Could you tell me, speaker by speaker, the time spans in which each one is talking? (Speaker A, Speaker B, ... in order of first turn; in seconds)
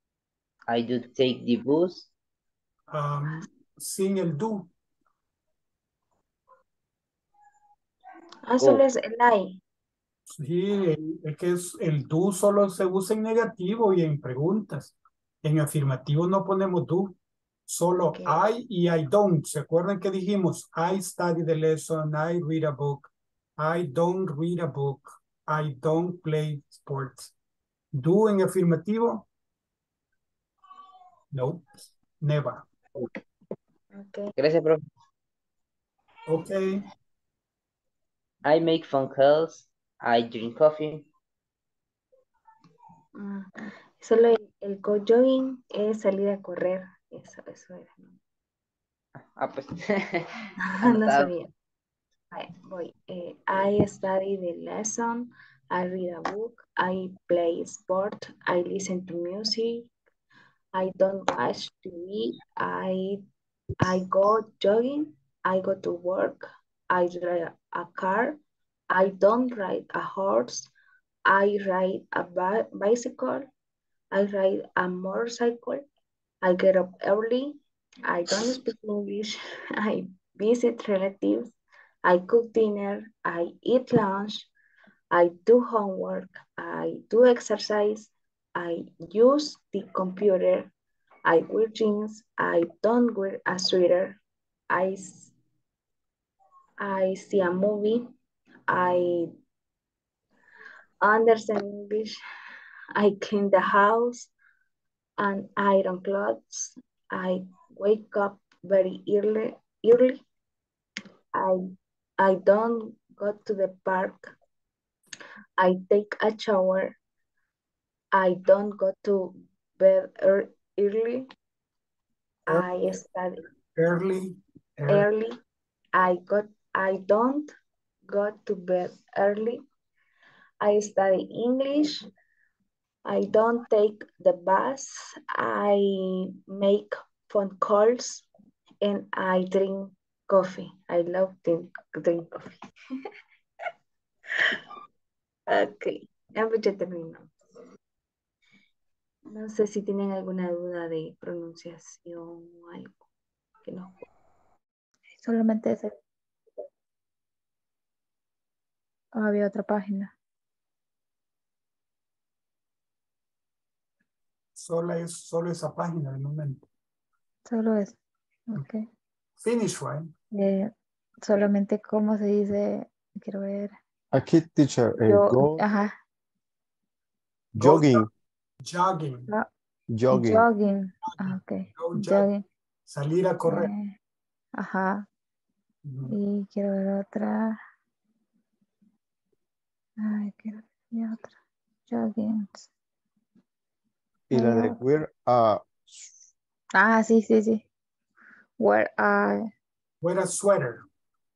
Speaker A: 0.7-2.1, 34.4-34.8, 38.4-41.1, 49.4-51.3
Speaker B: 2.9-4.7, 10.3-17.2, 17.7-27.3, 27.9-29.3, 31.3-31.7, 32.2-32.6, 36.3-36.8, 123.8-125.1, 164.6-166.6, 169.4-170.1, 177.6-178.1, 178.6-179.3, 181.1-182.3, 182.9-183.7, 185.8-186.2, 200.0-200.8
Speaker C: 8.5-9.6, 33.9-34.3, 43.1-48.2, 50.6-51.5, 52.3-59.9, 60.7-63.2, 63.8-68.4, 68.9-70.7, 71.3-73.5, 74.1-75.8, 76.4-81.5, 82.0-84.5, 85.1-90.7, 91.2-94.2, 94.7-95.3, 96.8-98.1, 98.7-99.3, 101.0-102.2, 103.0-104.3, 105.2-110.2, 111.3-114.3, 115.6-117.0, 118.1-121.3, 122.5-123.4, 124.9-125.4, 125.9-127.5, 128.1-129.7, 130.6-132.1, 133.1-138.3, 138.8-142.6, 145.5-147.3, 149.3-153.0, 153.7-154.0
Speaker D: 155.2-155.9, 159.1-160.1, 167.5-168.0, 168.5-168.9, 170.3-173.8, 175.1-175.9, 180.1-182.4, 183.4-183.9, 184.6-185.1, 186.1-187.6, 190.0-191.4, 191.9-192.7, 194.3-194.8, 196.8-197.6, 198.6-199.5
Speaker E: 174.1-175.6, 177.6-178.1, 179.9-180.5, 194.3-195.6